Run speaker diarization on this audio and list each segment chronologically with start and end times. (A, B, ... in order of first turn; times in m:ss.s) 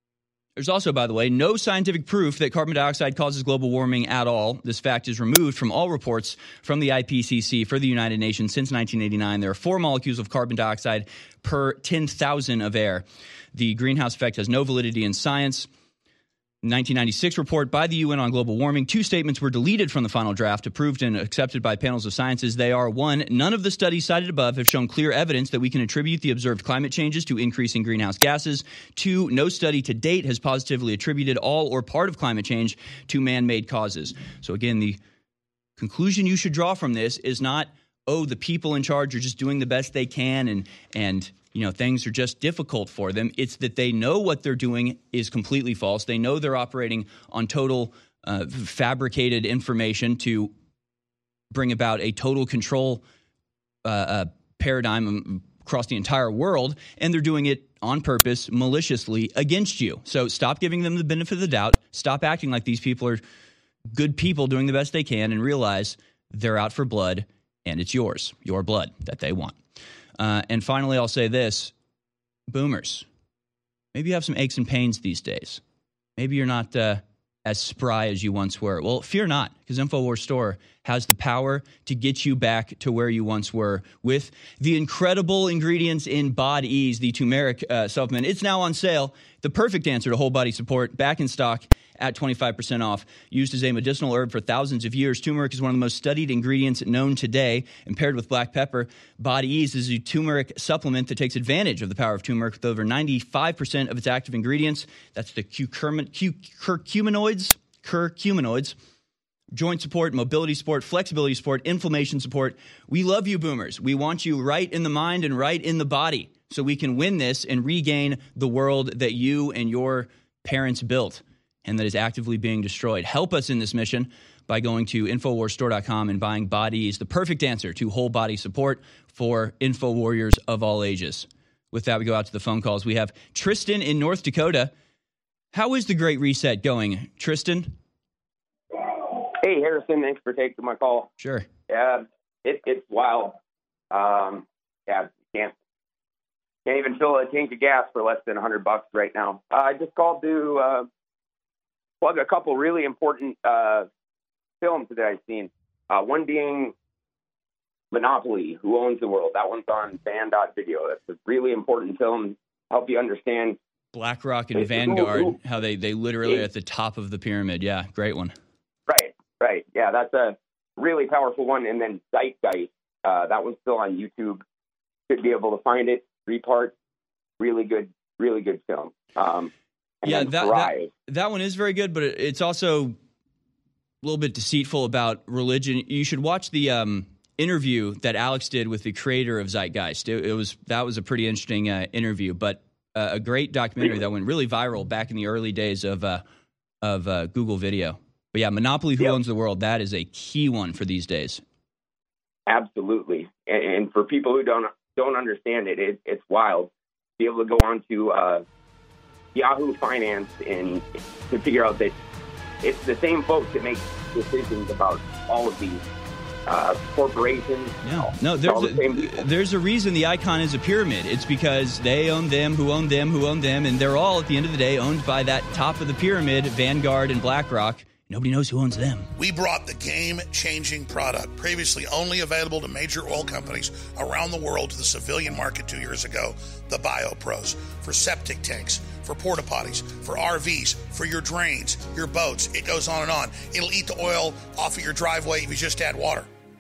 0:00.6-0:15.7 A
0:16.6-0:35.0 A
0:35.8-0:50.5 A
0:51.5-0:53.0 A
0:53.8-1:03.2 A
1:03.9-1:09.6 A
1:10.2-1:11.7 A
1:12.5-1:13.1 A
1:13.9-1:15.6 A
1:16.2-1:48.7 A
1:49.5-2:14.7 A
2:15.5-2:17.8 A
2:18.7-2:21.1 B
2:21.2-2:21.4 A
2:21.7-2:23.4 B
2:23.9-2:25.5 B
2:26.6-2:30.9 B
2:32.0-2:33.9 B
2:34.6-2:36.7 B
2:37.9-2:43.6 B
2:43.9-2:48.4 A
2:44.6-2:45.4 B
2:48.9-2:54.4 B
2:55.1-2:56.7 B
2:57.4-2:59.5 B
3:00.0-3:00.9 B
3:00.0-3:03.0 A
3:04.0-3:16.2 A
3:16.8-3:21.4 A
3:22.5-3:28.4 B
3:29.3-3:32.0 B
3:32.6-3:35.8 B
3:36.5-3:39.2 B
3:37.8-3:49.1 A
3:49.2-4:06.3 C